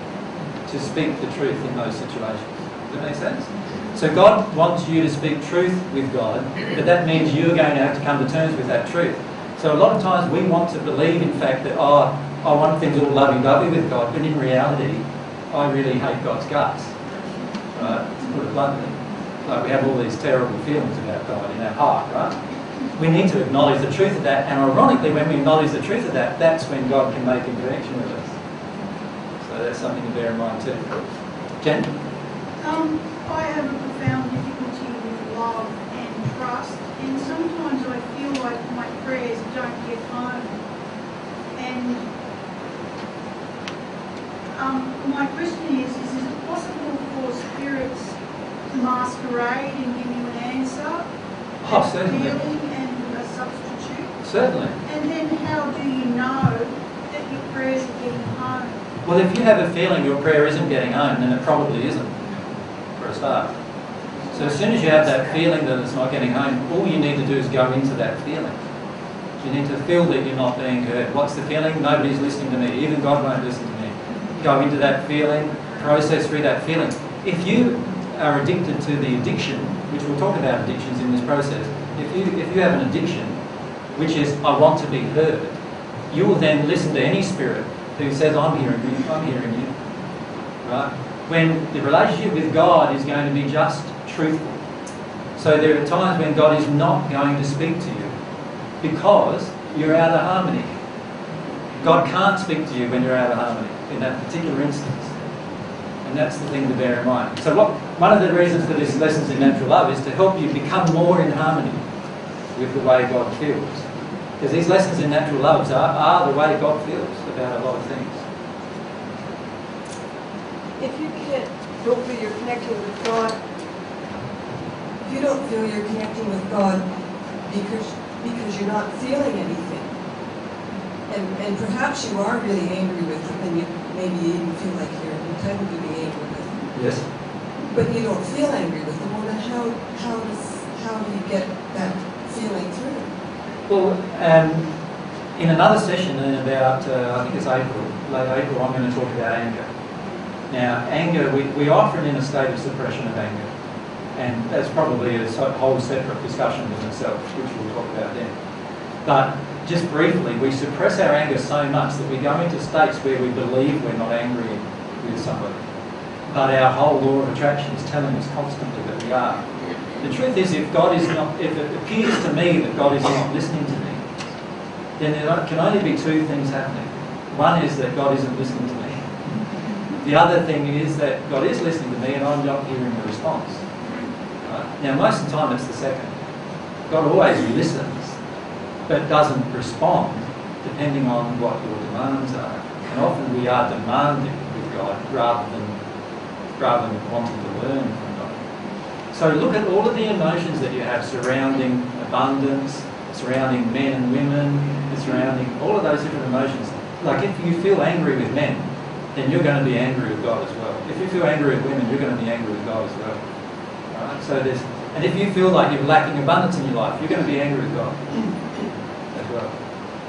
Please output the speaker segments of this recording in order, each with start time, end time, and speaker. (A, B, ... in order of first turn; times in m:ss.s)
0:00.7-0:16.9 A
0:17.7-0:22.4 A
0:23.0-0:28.3 A
0:29.4-0:31.0 A
0:31.6-0:31.9 A
0:32.6-0:40.6 B
0:41.5-0:42.0 B
0:44.5-0:48.2 B
0:48.7-0:51.0 B
0:51.6-0:52.4 A
0:51.6-0:54.1 B
0:54.2-0:54.7 A
0:54.8-0:58.8 B
0:59.0-1:02.2 A
1:03.0-1:03.5 A
1:04.3-1:04.8 B
1:04.3-1:08.6 A
1:09.4-1:23.4 A
1:23.9-1:25.5 A
1:26.1-1:29.7 A
1:30.6-1:34.6 A
1:35.4-1:38.1 A
1:38.8-1:40.7 A
1:41.8-1:45.1 A
1:46.0-1:51.8 A
1:52.5-1:53.8 A
1:54.4-1:58.2 A
2:00.8-2:03.4 C
2:05.0-2:06.9 C
2:07.4-2:09.9 C
2:11.1-2:16.6 C
2:16.7-2:17.0 A
2:17.7-2:23.1 C
2:23.7-2:24.7 A
2:25.4-2:29.7 A
2:30.5-2:33.5 A
2:34.1-2:38.3 A
2:39.0-2:45.6 A
2:46.3-2:49.4 A
2:50.0-2:54.0 A
2:55.0-2:59.0 A
3:00.0-3:03.6 A
3:04.4-3:06.1 A
3:06.9-3:08.2 A
3:08.9-3:15.8 A
3:16.6-3:18.4 A
3:19.1-3:33.2 A
3:33.9-3:38.0 A
3:39.1-3:39.5 A